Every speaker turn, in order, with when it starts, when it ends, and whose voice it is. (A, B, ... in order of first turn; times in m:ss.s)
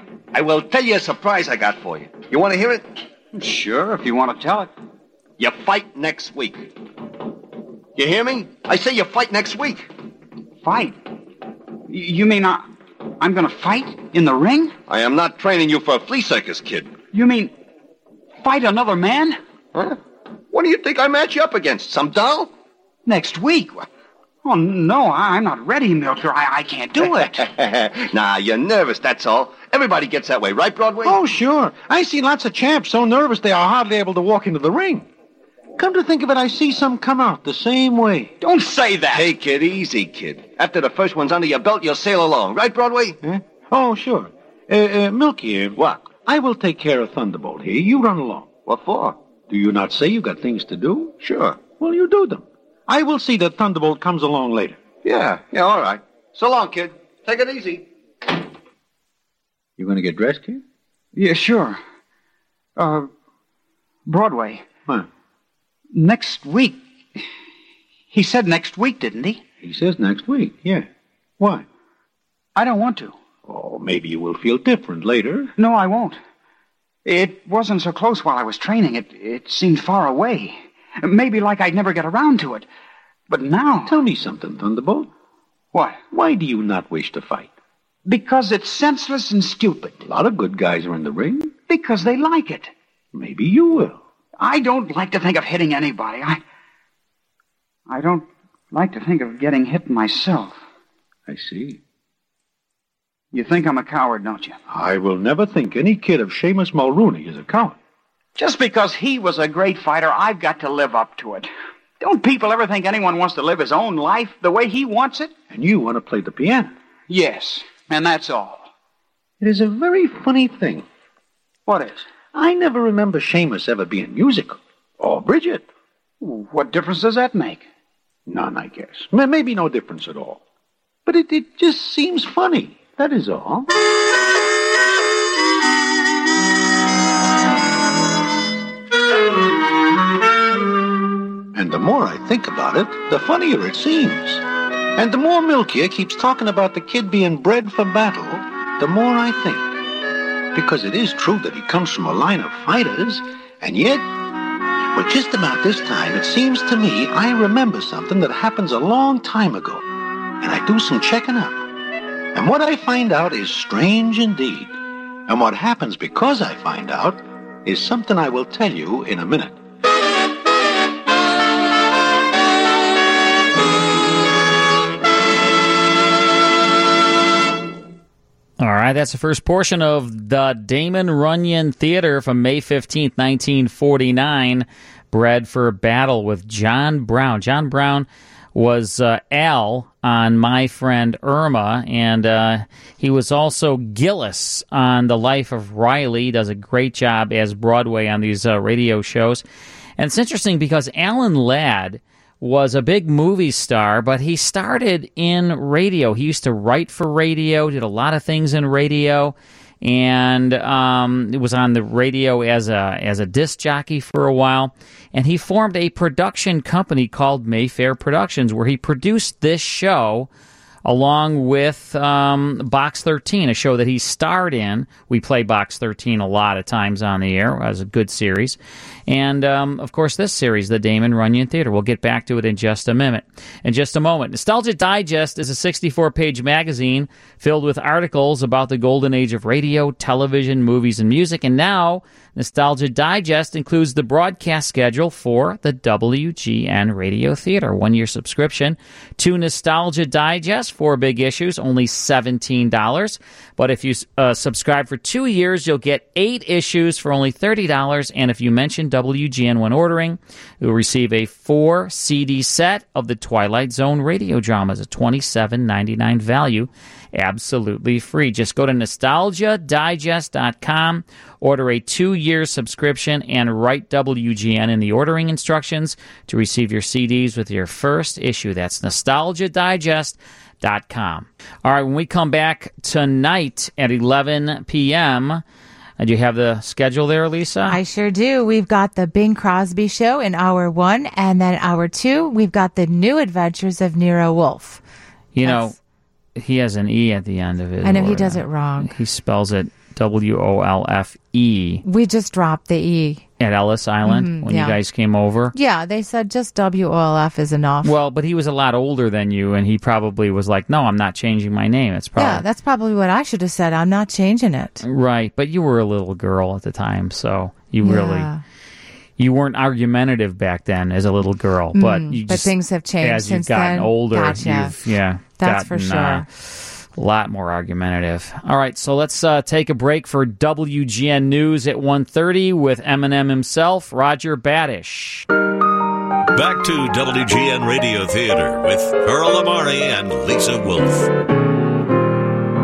0:00.3-0:02.9 A
0:03.3-0:04.7 B
0:05.4-0:06.7 A
0:08.0-0:09.9 A
0:10.6-0:11.0 B
0:11.9-0:12.7 B
0:13.2-0:14.8 B
0:14.9-0:17.0 A
0:17.1-0:17.5 B
0:18.4-0:19.4 B
0:20.5-0:22.5 A
0:23.1-0:23.9 B
0:24.4-0:27.4 B
0:27.4-0:31.2 A
0:31.0-0:35.1 C
0:35.8-0:38.3 C
0:38.4-0:39.3 B
0:39.1-0:43.2 A
0:43.2-0:48.6 C
0:45.8-0:46.1 A
0:48.6-0:49.2 A
0:49.5-0:51.2 C
0:51.2-0:51.7 A
0:51.7-0:54.8 C
0:55.0-0:57.8 A
0:59.8-1:00.6 C
1:01.1-1:01.8 B
1:02.8-1:03.1 B
1:04.1-1:04.7 B
1:05.9-1:07.2 B
1:08.1-1:09.4 B
1:09.6-1:10.9 C
1:11.4-1:11.6 C
1:12.6-1:13.2 B
1:13.5-1:15.5 C
1:15.6-1:16.2 B
1:17.0-1:22.7 B
1:23.3-1:24.0 B
1:23.9-1:25.1 C
1:25.7-1:26.0 B
1:26.1-1:27.5 C
1:28.1-1:30.0 B
1:30.0-1:31.6 C
1:31.7-1:32.7 B
1:33.1-1:34.0 C
1:34.4-1:36.4 B
1:37.9-1:40.6 B
1:41.3-1:41.8 C
1:43.3-1:44.6 B
1:44.7-1:47.8 C
1:48.4-1:55.3 B
1:55.5-1:56.7 C
1:57.1-1:58.7 B
1:59.4-2:00.8 C
2:01.7-2:02.1 B
2:02.3-2:05.7 C
2:06.2-2:07.6 B
2:08.3-2:10.4 C
2:11.1-2:13.7 C
2:21.5-2:24.4 C
2:25.0-2:29.8 C
2:30.5-2:34.1 C
2:34.9-2:39.9 C
2:40.4-2:41.6 C
2:42.3-2:44.8 C
2:45.3-2:49.6 C
2:58.6-3:19.4 D
3:20.0-3:40.3 D
3:40.8-4:45.4 D
4:46.0-4:47.8 D
4:47.7-4:54.8 E
4:55.4-4:55.8 D
4:55.4-4:55.8 E
4:56.4-5:01.8 D
4:57.8-4:58.9 E
5:01.8-5:03.2 E
5:03.4-5:05.5 D
5:04.0-5:04.8 E
5:05.5-5:08.0 E
5:07.8-5:12.4 D
5:12.2-5:14.8 E
5:14.8-5:18.3 D
5:17.8-5:18.4 E
5:19.2-5:26.2 D
5:21.7-5:24.8 E
5:25.4-5:26.3 E
5:27.0-5:35.3 D
5:36.3-5:41.1 F